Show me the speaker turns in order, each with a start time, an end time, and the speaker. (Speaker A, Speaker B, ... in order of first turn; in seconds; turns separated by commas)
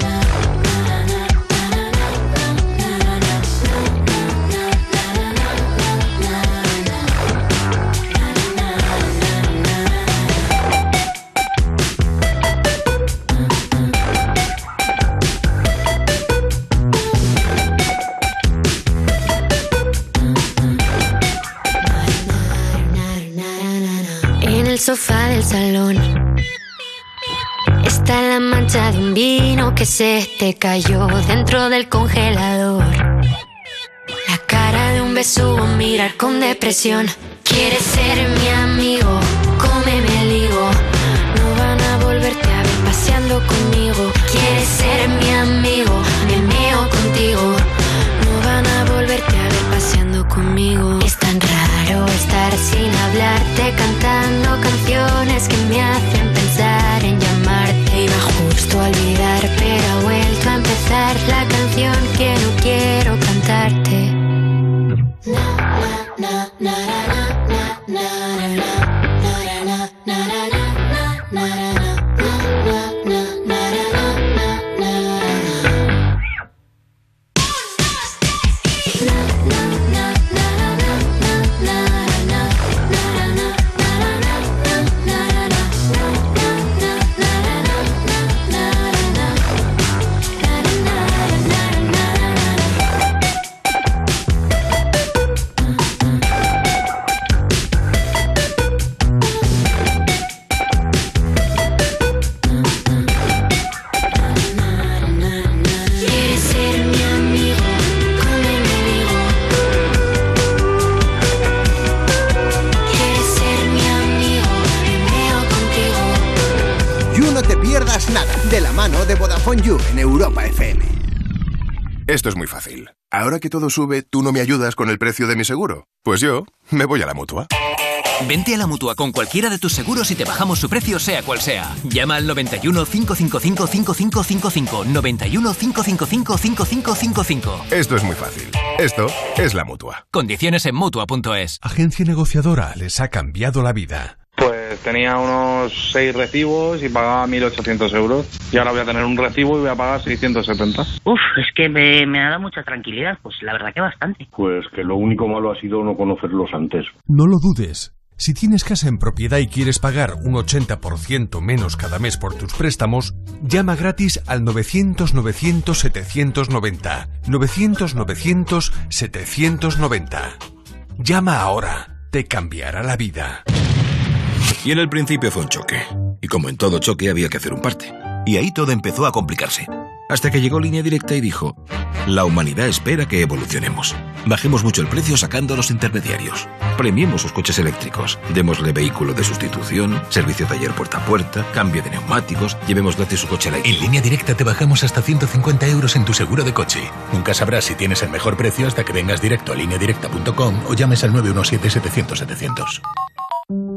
Speaker A: 21.8-26.1, Speaker A: 27.8-33.0, Speaker A: 34.2-40.8, Speaker A: 41.3-47.7, Speaker A: 48.2-64.2, Speaker A: 65.3-75.2, Speaker A: 80.0-85.8, Speaker A: 87.2-87.5, Speaker A: 88.5-89.2, Speaker A: 90.4-92.4, Speaker A: 104.3-109.4, Speaker A: 112.8-116.3, Speaker B: 117.1-120.9, Speaker C: 122.1-127.5, Speaker D: 128.2-137.7, Speaker C: 137.7-140.0, Speaker D: 140.1-141.6, Speaker E: 141.6-144.2, Speaker F: 144.4-150.9, Speaker G: 151.1-154.3, Speaker H: 154.3-156.9, Speaker E: 157.1-170.3, Speaker E: 171.0-173.4, Speaker I: 174.6-193.7, Speaker J: 193.6-202.8